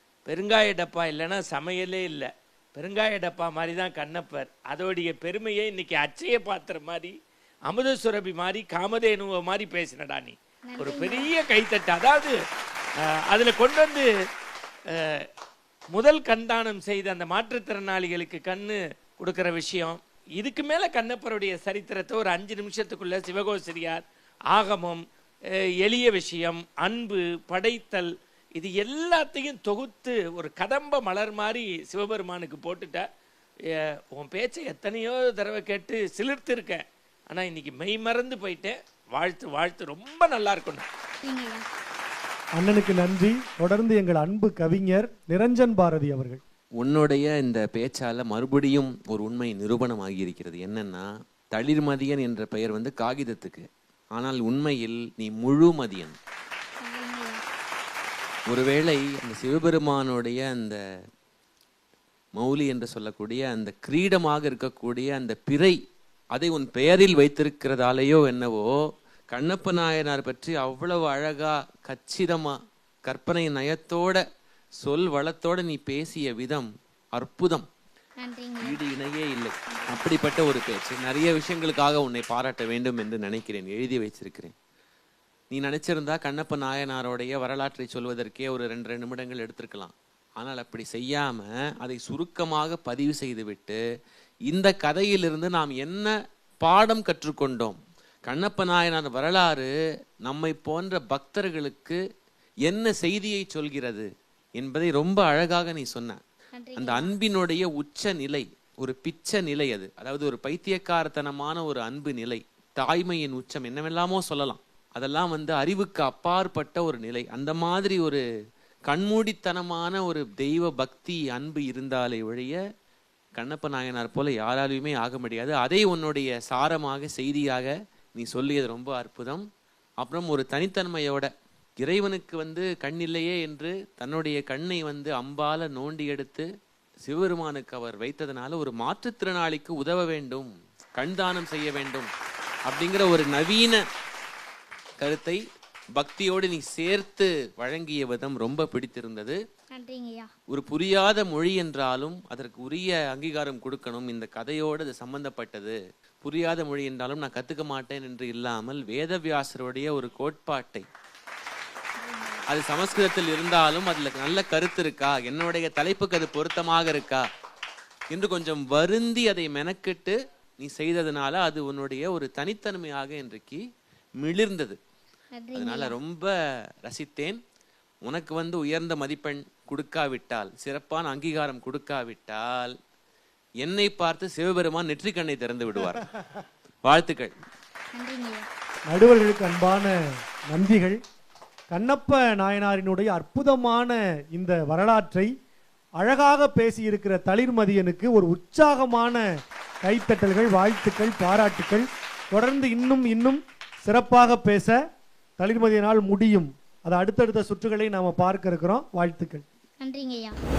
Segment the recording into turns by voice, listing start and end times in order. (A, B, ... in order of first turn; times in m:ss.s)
0:00.3-0:07.2 A
0:07.7-0:12.4 A
0:10.7-0:11.3 B
0:13.3-0:14.1 A
0:14.9-0:15.2 A
0:15.9-0:25.0 A
0:25.8-0:33.0 A
0:33.8-0:40.9 A
0:41.2-0:41.6 B
0:42.6-0:46.4 C
0:46.8-0:56.2 D
0:56.8-0:57.4 B
0:58.5-1:00.8 D
1:02.4-1:05.8 D
1:06.4-1:08.7 D
1:09.3-1:12.6 D
1:13.1-1:14.2 D
1:14.8-1:17.6 D
1:18.2-1:18.8 B
1:18.6-1:24.5 D
1:19.8-1:20.2 B
1:25.5-1:33.8 D
1:34.5-1:36.1 D
1:36.6-1:37.8 D
1:38.3-1:39.7 D
1:40.2-1:42.0 D
1:42.7-1:46.2 D
1:46.6-1:47.1 B
1:46.8-1:58.2 D
1:58.9-2:02.6 D
2:03.4-2:09.4 D
2:10.0-2:11.3 D
2:11.8-2:16.4 D
2:17.1-2:22.1 D
2:22.7-2:23.8 D
2:25.0-2:25.4 D
2:26.0-2:29.4 D
2:29.7-2:30.3 B
2:30.5-2:40.8 D
2:42.0-2:42.4 B
2:42.5-2:47.2 D
2:48.1-2:53.6 D
2:54.2-2:54.8 D
2:55.4-2:55.9 B
2:55.6-2:56.3 D
2:56.8-2:57.4 D
2:58.0-3:02.8 D
3:03.6-3:06.0 D
3:06.9-3:07.3 D
3:07.9-3:08.5 B
3:08.9-3:09.9 C
3:10.5-3:11.0 C
3:11.7-3:15.3 C
3:16.0-3:19.2 C
3:19.8-3:24.8 C
3:25.4-3:29.4 C
3:29.8-3:30.4 B